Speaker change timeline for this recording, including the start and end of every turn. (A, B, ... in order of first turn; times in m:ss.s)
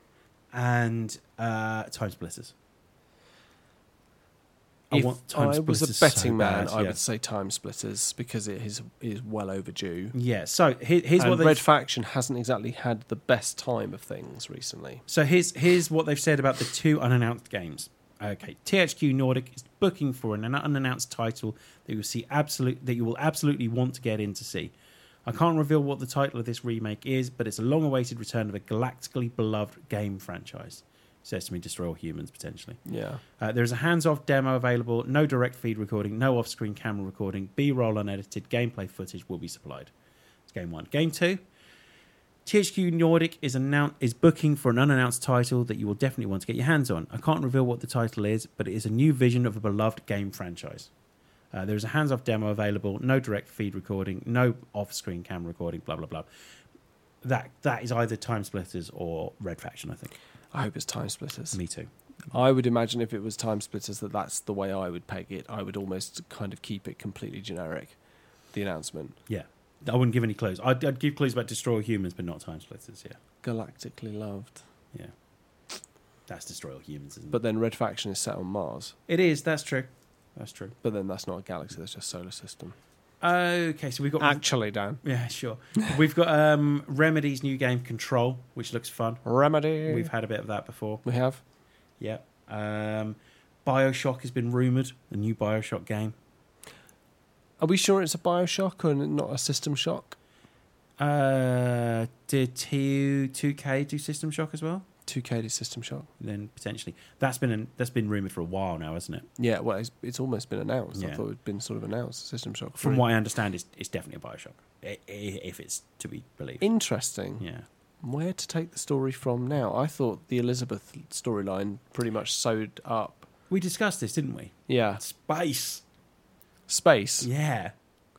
0:00.5-0:02.5 A
0:04.9-0:07.0 A
0:04.9-0:10.2 B
0:10.1-0:11.6 A
0:11.2-0:15.0 B
0:15.1-0:24.7 A
0:25.2-0:32.8 A
0:32.8-0:33.2 B
0:33.4-0:39.9 A
0:40.5-0:41.4 A
0:42.4-0:50.9 A
0:51.5-0:56.3 A
0:57.2-1:00.2 A
1:00.5-1:01.6 B
1:01.5-1:01.9 A
1:02.3-1:08.0 B
1:08.5-1:09.2 B
1:09.3-1:13.2 A
1:13.4-1:14.6 B
1:16.3-1:17.4 A
1:17.3-1:19.0 B
1:19.1-1:20.8 A
1:20.8-1:22.8 B
1:23.2-1:24.4 A
1:24.2-1:25.0 B
1:25.0-1:29.2 A
1:29.2-1:30.1 B
1:29.9-1:31.0 A
1:31.0-1:31.4 B
1:32.0-1:36.1 A
1:37.6-1:40.2 B
1:41.0-1:44.9 A
1:45.1-1:46.1 B
1:46.2-1:49.3 A
1:49.4-1:53.0 B
1:50.9-1:51.2 A
1:52.8-1:56.7 A
1:56.6-1:57.4 B
1:57.4-1:57.7 A
1:58.0-2:03.3 B
2:03.5-2:05.8 A
2:04.7-2:05.0 B
2:06.7-2:07.3 B
2:07.2-2:07.7 A